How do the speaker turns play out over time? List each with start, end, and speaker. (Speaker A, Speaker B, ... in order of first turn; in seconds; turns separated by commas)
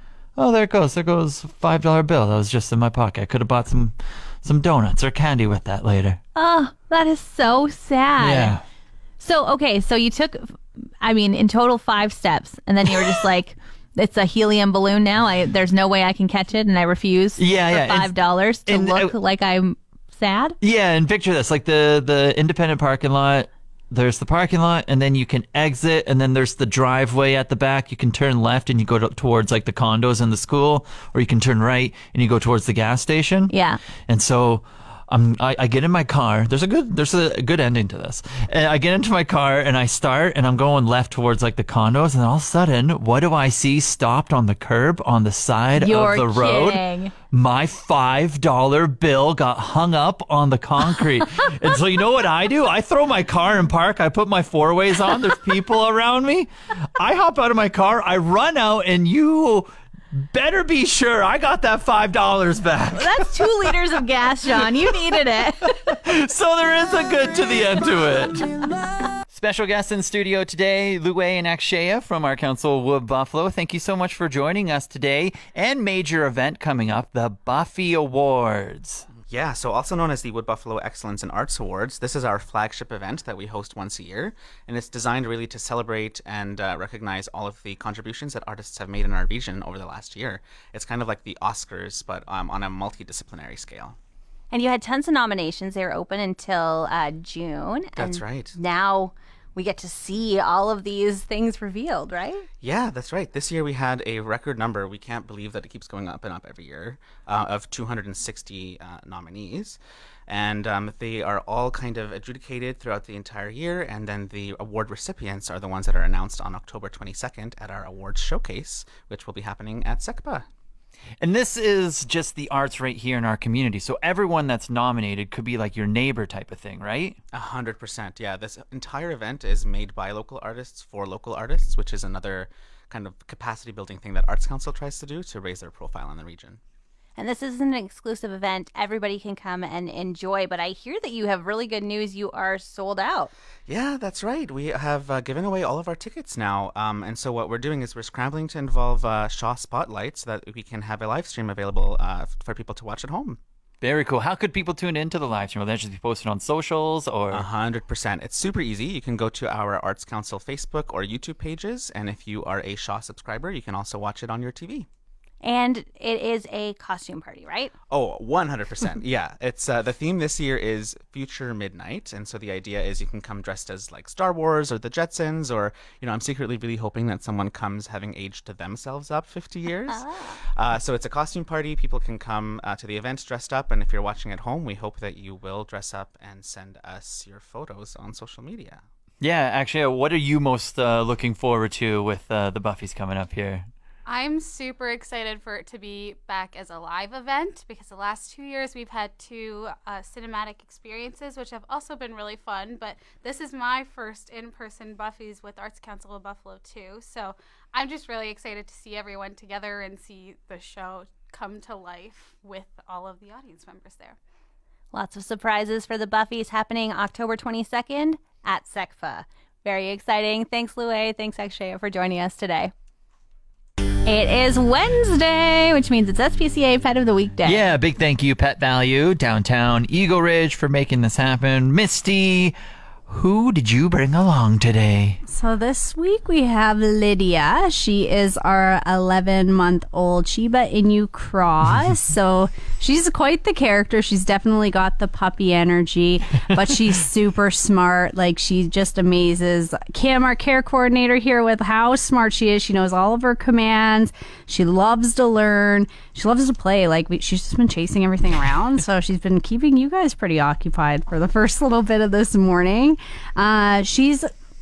Speaker A: 0.4-6.2, Speaker B: 6.3-8.6, Speaker A: 8.2-8.6, Speaker B: 9.2-20.6, Speaker A: 12.9-13.1, Speaker A: 17.4-18.1, Speaker A: 18.7-19.1, Speaker A: 20.6-33.5, Speaker B: 33.5-33.8, Speaker A: 34.1-63.7, Speaker B: 45.8-47.1, Speaker B: 62.9-66.0, Speaker A: 65.8-68.5, Speaker A: 69.3-79.1, Speaker C: 79.3-94.0, Speaker B: 94.5-102.5, Speaker C: 98.0-98.6, Speaker C: 102.6-120.5, Speaker A: 121.2-127.2, Speaker C: 127.3-136.6, Speaker B: 137.2-143.3, Speaker C: 143.7-153.4, Speaker A: 153.8-157.5, Speaker C: 157.3-164.9, Speaker B: 165.4-167.7, Speaker C: 167.9-188.8, Speaker B: 179.9-180.4, Speaker A: 189.2-193.7, Speaker D: 194.1-214.2, Speaker B: 214.9-222.7, Speaker B: 224.1-227.7, Speaker A: 227.4-232.6, Speaker A: 233.1-235.2, Speaker E: 235.3-264.3